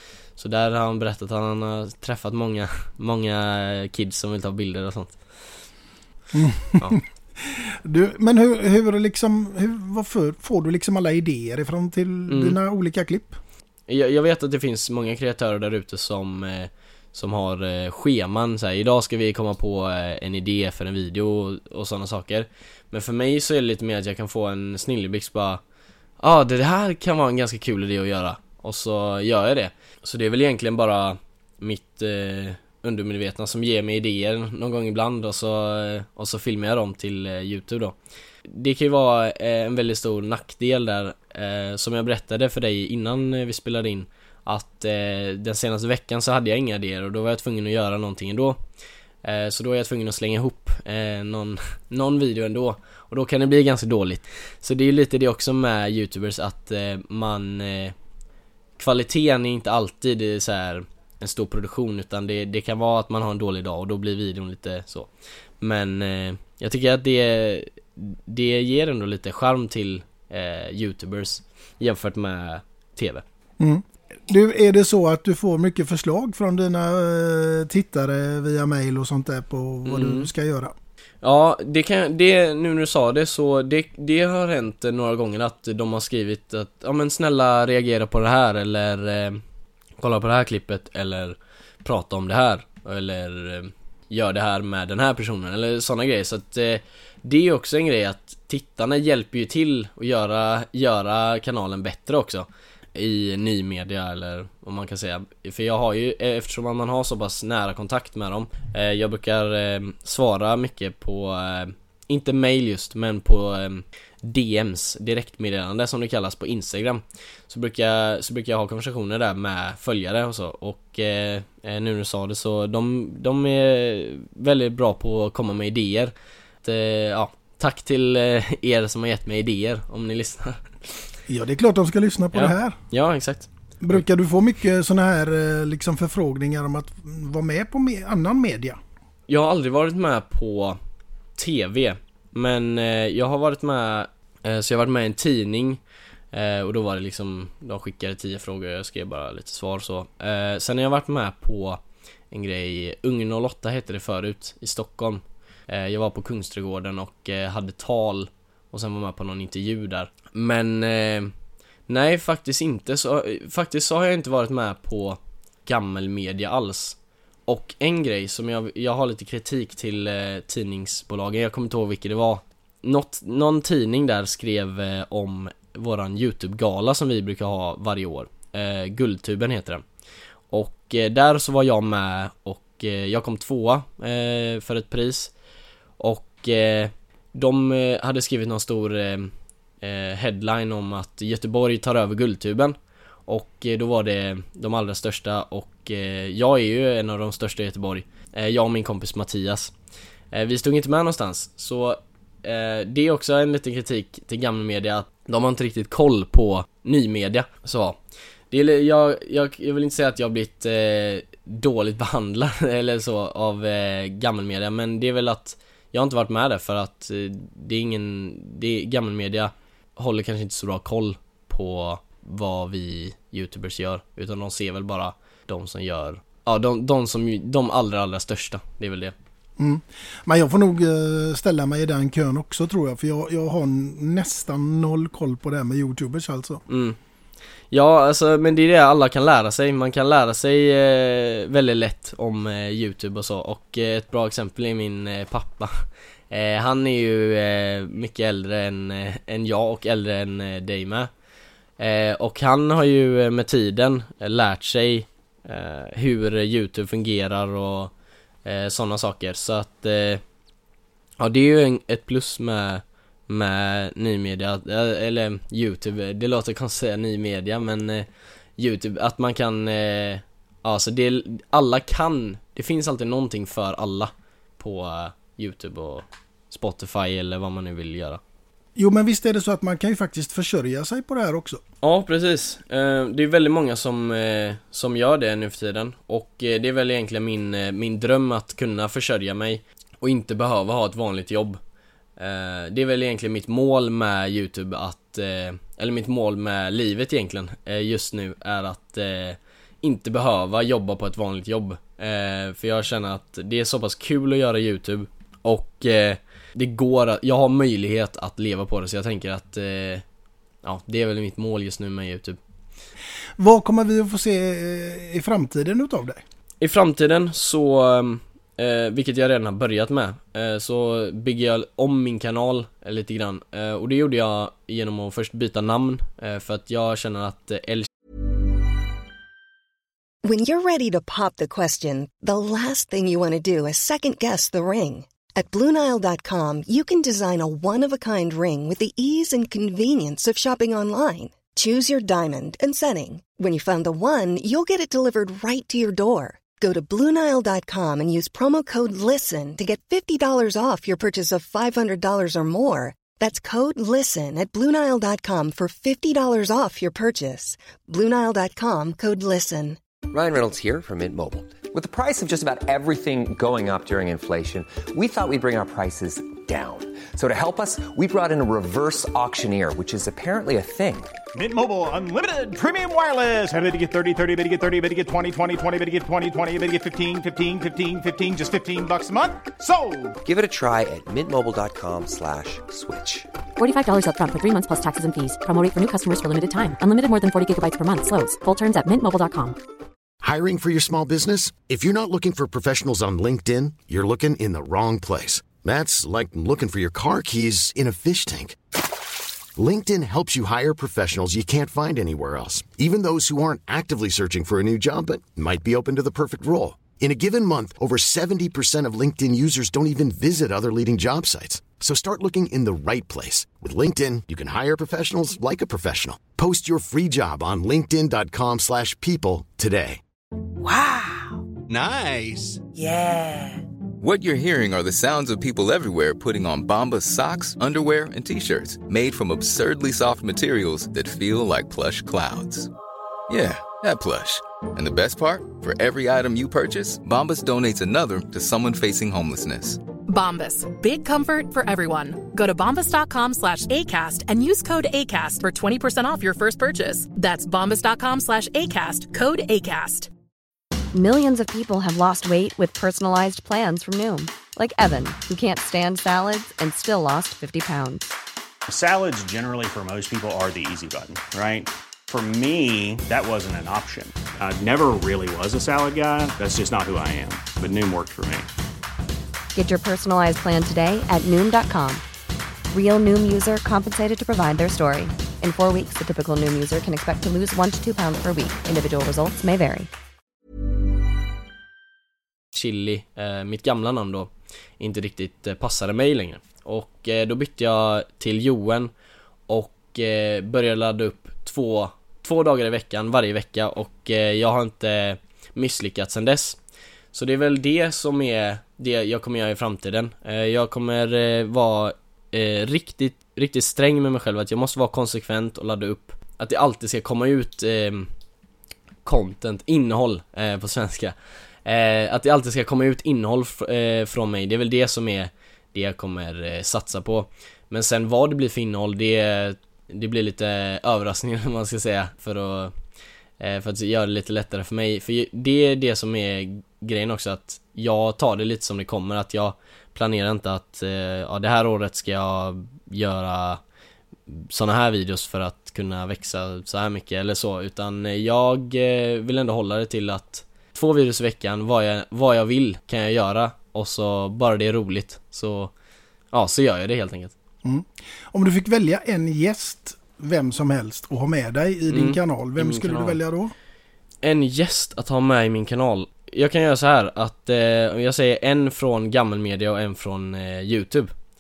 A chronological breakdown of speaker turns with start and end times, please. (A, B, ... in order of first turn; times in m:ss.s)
0:00.4-0:05.2 A
0:06.3-0:13.4 B
0:12.3-0:12.6 A
0:13.9-0:25.6 A
0:26.2-0:38.0 A
0:38.5-0:48.6 A
0:49.2-0:57.9 A
0:58.8-1:05.1 A
1:05.6-1:13.2 A
1:13.6-1:20.7 B
1:19.9-1:20.3 A
1:21.2-1:29.4 A
1:30.0-2:10.7 A
2:11.3-2:12.8 B
2:12.3-2:14.0 A
2:13.8-2:18.8 B
2:19.3-2:20.8 A
2:21.4-2:25.8 A
2:26.3-2:41.3 A
2:41.9-2:59.8 A
3:00.5-3:05.3 A
3:06.0-3:12.8 A
3:13.3-3:19.7 A
3:20.3-3:28.0 A
3:28.5-3:49.1 A
3:49.6-3:56.6 B
3:56.7-3:57.0 A
3:57.7-4:11.1 A
4:11.8-4:17.9 A
4:18.4-4:20.2 A
4:21.2-4:28.1 A
4:28.6-4:38.2 A
4:38.8-4:41.6 B
4:41.8-4:51.6 A
4:52.2-5:10.0 A
5:10.6-5:12.4 A
5:13.4-5:16.2 B
5:16.6-5:27.9 A
5:30.2-5:59.8 C
6:00.1-6:11.2 D
6:11.4-6:20.2 E
6:20.2-6:23.3 D
6:23.6-6:29.6 F
6:30.2-6:38.6 G
6:39.6-7:00.0 G
7:01.7-7:02.6 E
7:04.0-7:12.7 H
7:13.3-7:19.8 H
7:20.1-7:30.1 I
7:30.9-7:38.1 J
7:38.7-7:48.5 K
7:49.6-7:52.0 J
7:52.7-7:59.9 J
8:02.5-8:08.9 A
8:09.5-8:16.6 A
8:17.1-8:28.1 A
8:29.0-8:42.7 A
8:43.4-8:53.6 A
8:54.3-9:05.7 A
9:06.3-9:07.3 A
9:07.6-9:13.5 B
9:11.9-9:13.2 A
9:14.2-9:21.1 A